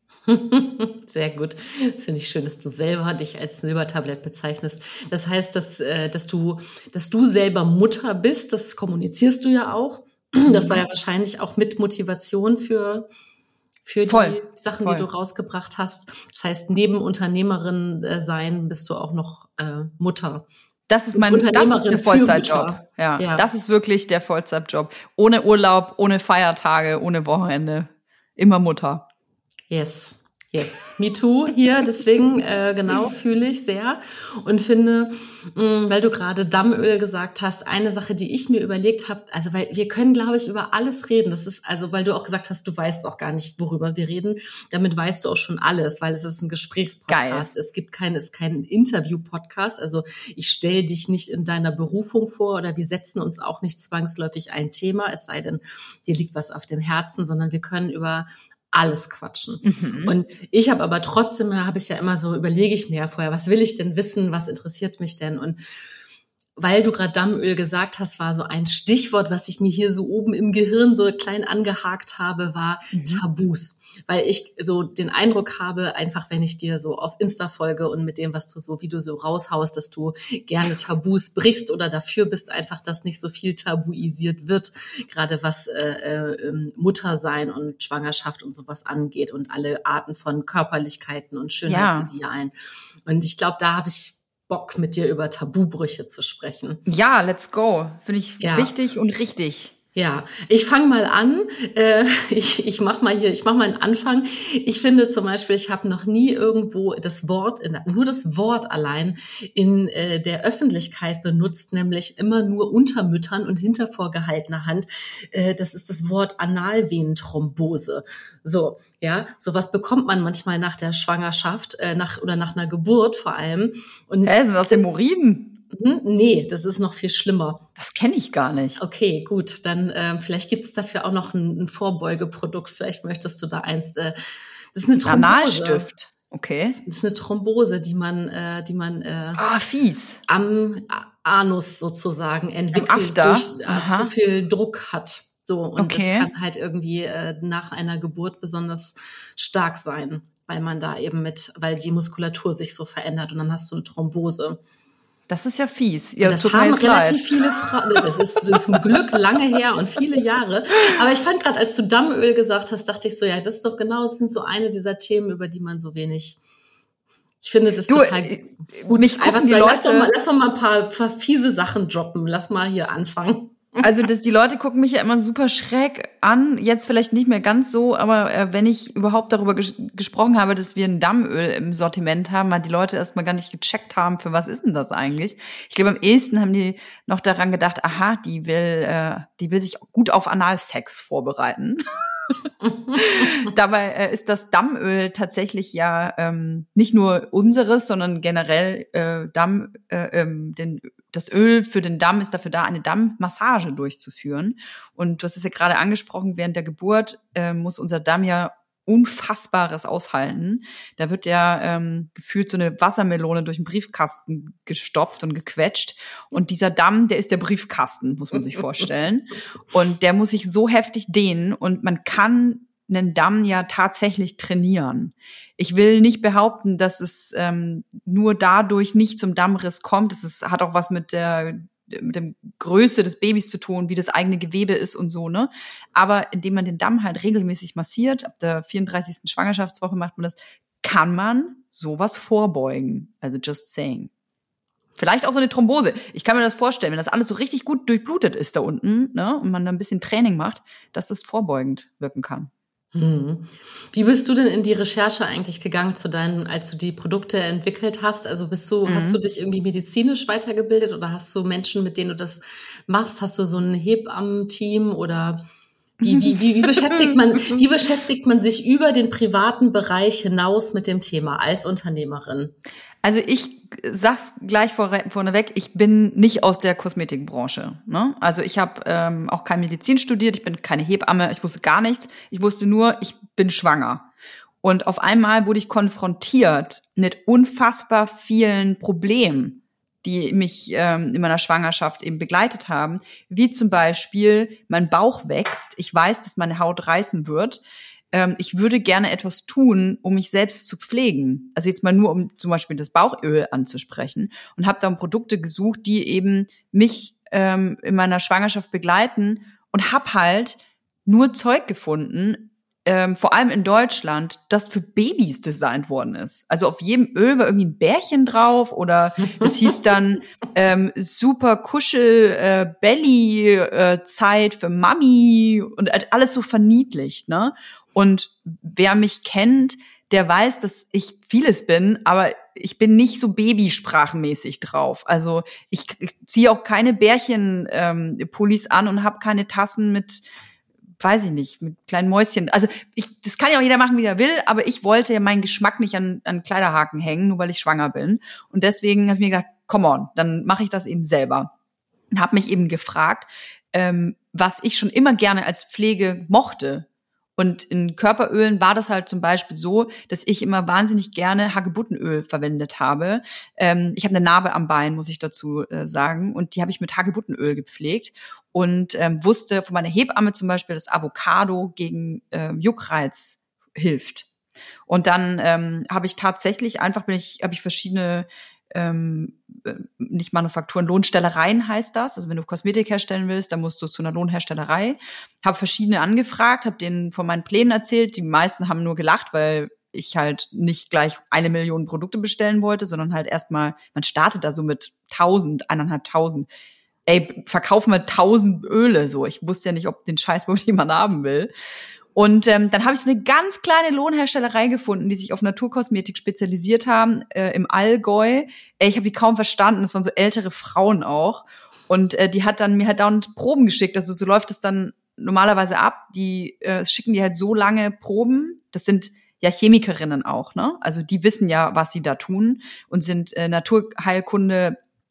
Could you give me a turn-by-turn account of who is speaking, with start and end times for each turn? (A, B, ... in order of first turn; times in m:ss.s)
0:00.3-0:13.1 A
0:10.5-0:10.8 B
0:13.9-0:20.5 A
0:14.1-0:15.1 B
0:20.9-0:29.1 B
0:21.1-0:23.4 A
0:29.7-1:05.6 A
0:47.1-0:47.5 B
0:59.6-1:00.2 B
1:06.6-1:32.5 A
1:12.9-1:13.2 B
1:31.7-1:32.1 B
1:33.1-1:36.8 A
1:36.9-1:39.7 B
1:38.4-1:38.7 A
1:40.0-2:04.8 A
2:04.2-2:05.6 B
2:05.7-2:07.6 A
2:07.8-2:08.8 B
2:08.8-2:14.2 A
2:14.7-2:15.9 A
2:15.0-2:16.8 B
2:16.8-2:19.4 A
2:19.4-2:20.2 B
2:20.3-2:34.6 A
2:22.7-2:24.1 B
2:25.8-2:26.3 B
2:35.3-2:39.2 B
2:36.2-2:46.4 A
2:47.4-2:53.8 A
2:47.9-2:50.1 B
2:53.8-3:12.3 B
3:12.9-4:04.1 B
4:05.0-4:12.5 B
4:12.9-4:25.5 A
4:18.9-4:19.2 B
4:26.0-4:32.5 A
4:26.0-4:27.6 B
4:33.0-4:44.1 B
4:44.6-5:40.2 B
5:41.0-5:51.5 B
5:52.1-5:56.9 B
5:57.4-6:14.3 B
6:14.9-6:36.5 B
6:37.1-6:41.5 B
6:42.2-7:04.8 B